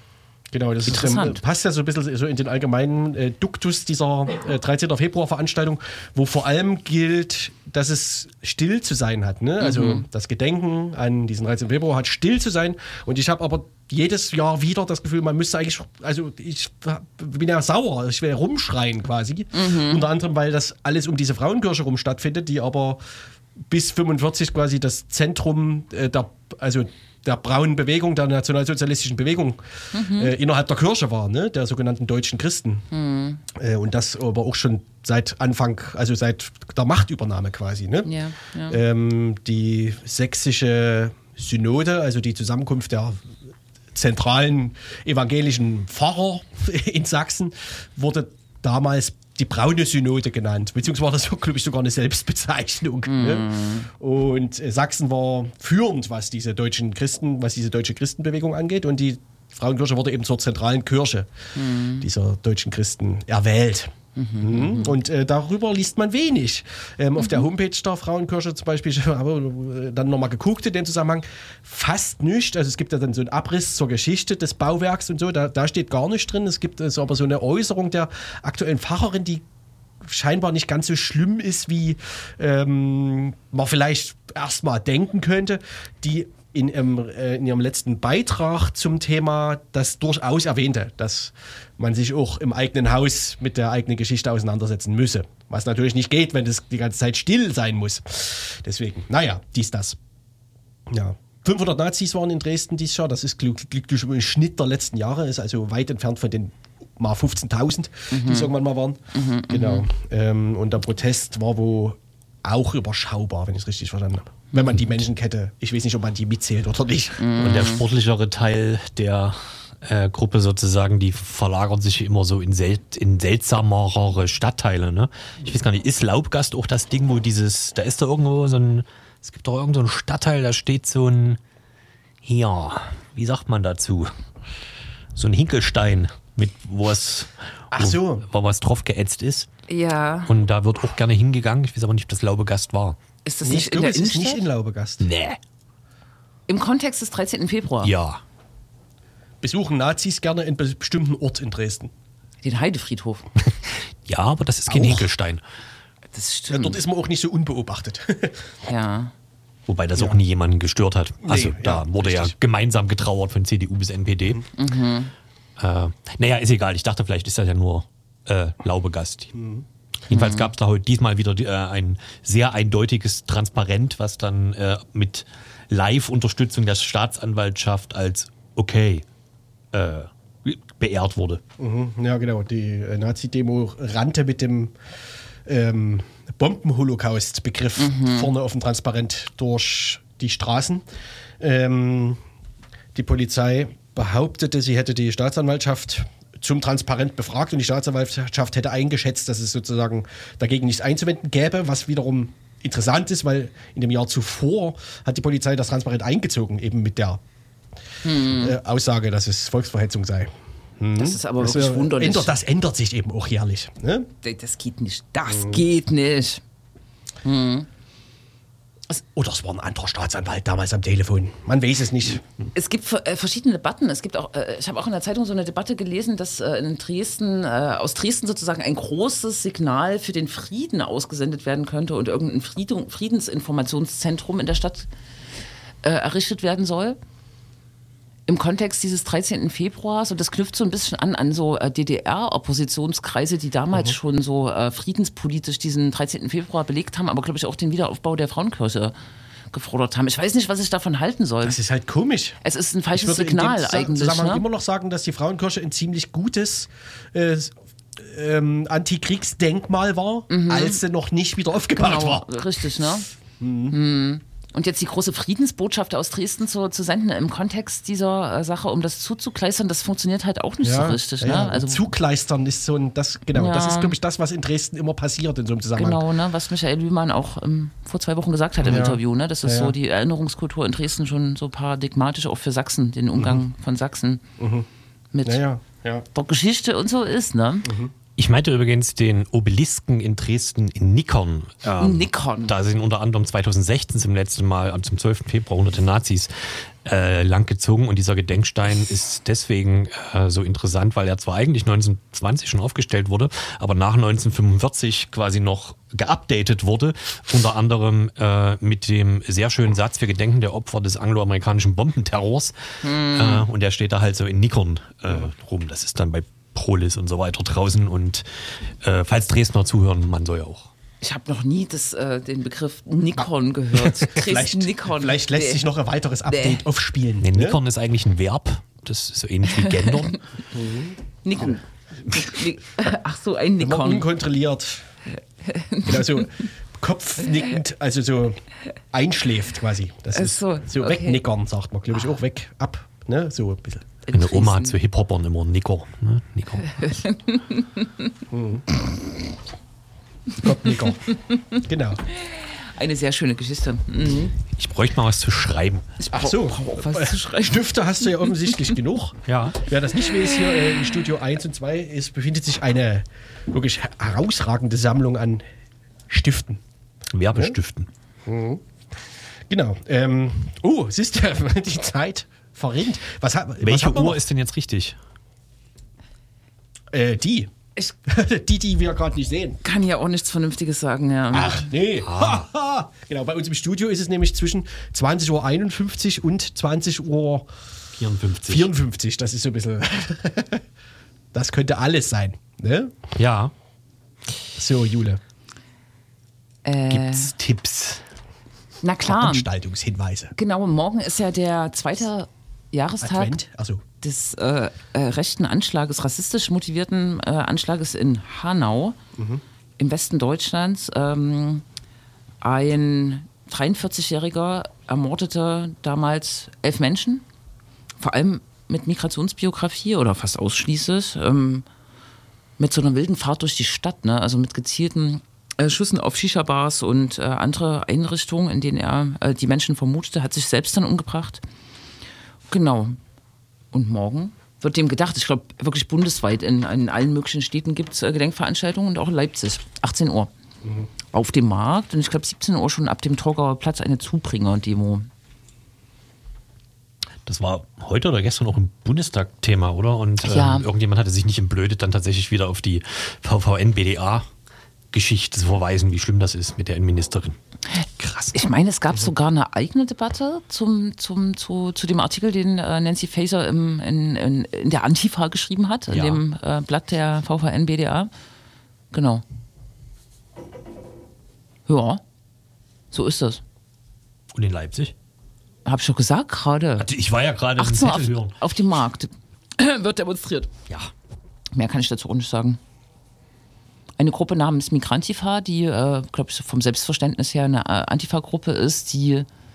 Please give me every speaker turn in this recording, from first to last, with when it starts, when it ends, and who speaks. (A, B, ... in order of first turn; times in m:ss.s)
0:00.5-0:23.0 A
0:00.8-0:01.4 B
0:09.6-0:10.0 B
0:19.5-0:20.1 B
0:23.7-0:32.9 A
0:29.9-0:30.3 B
0:32.9-0:33.4 B
0:33.5-0:38.1 A
0:38.0-0:38.8 B
0:38.7-0:43.2 A
0:43.9-1:01.3 A
0:53.1-0:53.9 B
1:01.5-1:02.0 B
1:02.0-1:19.4 A
1:04.2-1:05.0 B
1:07.2-1:07.4 B
1:20.0-1:40.0 A
1:40.9-1:57.3 A
1:48.1-1:48.5 B
1:49.1-1:49.8 B
1:57.2-1:57.8 B
1:57.4-2:11.4 C
2:12.2-2:14.1 C
2:15.1-2:19.5 C
2:17.7-2:18.2 A
2:19.7-2:20.3 B
2:20.2-2:23.0 C
2:23.2-2:24.4 B
2:23.4-2:25.0 A
2:25.0-2:25.4 C
2:26.5-2:27.9 B
2:27.8-2:28.2 C
2:29.4-2:31.9 A
2:32.4-2:33.2 B
2:33.5-2:35.4 C
2:34.7-2:35.1 A
2:36.1-2:36.8 B
2:36.5-2:38.5 A
2:38.6-2:39.1 B
2:39.7-2:44.4 C
2:41.2-2:42.4 A
2:44.5-2:45.1 B
2:45.6-2:49.3 C
2:49.3-2:49.6 A
2:50.1-2:59.0 C
2:50.1-2:50.5 B
2:59.7-3:01.4 C
3:01.6-3:04.7 A
3:05.4-3:10.8 A
3:07.8-3:08.3 B
3:11.4-3:12.2 A
3:12.9-3:27.2 A
3:28.0-3:28.6 B
3:28.2-3:34.1 A
3:31.0-3:32.3 B
3:34.2-3:36.4 B
3:37.2-3:37.7 B
3:39.0-3:42.2 A
3:42.5-3:54.9 B
3:55.8-3:57.0 B
3:58.3-4:08.9 B
4:09.5-4:11.6 B
4:11.4-4:12.4 A
4:12.4-4:14.4 B
4:12.9-4:22.4 A
4:20.3-4:20.8 B
4:21.7-4:23.1 B
4:23.4-4:23.8 A
4:23.7-4:31.9 B
4:30.6-4:36.0 A
4:33.3-4:34.0 B
4:35.8-4:44.2 B
4:38.6-4:39.7 A
4:44.4-4:44.7 A
4:45.1-4:45.4 B
4:45.2-4:46.0 A
4:46.1-4:47.7 B
4:47.6-4:47.9 A
4:48.2-4:56.3 C
4:51.8-4:52.5 B
4:56.8-5:18.2 C
5:12.8-5:13.5 B
5:18.8-5:20.7 C
5:21.0-5:25.7 B
5:23.8-5:27.6 A
5:26.3-5:26.6 B
5:27.2-5:30.2 C
5:29.6-5:30.2 B
5:30.5-5:31.0 A
5:31.2-5:34.2 B
5:33.6-5:34.9 A
5:35.4-5:36.3 B
5:35.8-5:38.4 A
5:38.9-5:43.9 A
5:40.1-5:41.2 B
5:44.0-5:44.8 B
5:44.1-5:46.9 C
5:46.6-5:48.1 B
5:48.3-5:48.6 A
5:50.4-5:52.0 A
5:51.1-5:51.6 B
5:52.1-5:54.4 B
5:54.4-5:55.8 C
5:56.0-5:58.5 B
5:56.1-6:05.4 A
5:59.3-5:59.6 C
6:06.1-6:06.6 A
6:07.1-6:07.9 C
6:08.2-6:08.6 A
6:09.5-6:14.2 A
6:13.6-6:15.0 C
6:16.9-6:17.5 A
6:18.0-6:19.6 A
6:19.6-6:21.7 B
6:21.3-6:27.5 A
6:22.0-6:22.4 C
6:28.0-6:28.7 C
6:28.4-6:30.6 A
6:31.3-6:33.0 A
6:33.2-6:33.5 C
6:34.6-6:35.2 A
6:36.6-6:37.3 B
6:36.9-6:38.0 C
6:38.8-6:39.5 B
6:39.0-6:40.3 A
6:40.3-6:43.4 B
6:43.0-6:43.8 A
6:44.0-6:49.0 B
6:49.2-6:49.4 A
6:49.8-6:51.6 B
6:52.4-6:57.2 B
6:58.0-7:01.6 B
7:02.6-7:11.4 B
7:12.5-7:13.0 B
7:13.7-7:20.3 B
7:21.1-7:25.1 B
7:27.2-7:34.2 C
7:30.2-7:30.7 B
7:34.9-7:37.4 C
7:38.0-7:38.4 C
7:38.3-7:48.1 B
7:45.9-7:46.2 C
7:48.9-7:49.2 B
7:51.7-7:52.0 B
7:52.9-7:53.4 B
7:54.3-7:54.9 C
7:55.6-7:56.9 B
7:56.8-7:58.4 C
7:57.6-8:00.5 B
8:01.5-8:02.6 B
8:04.0-8:09.3 B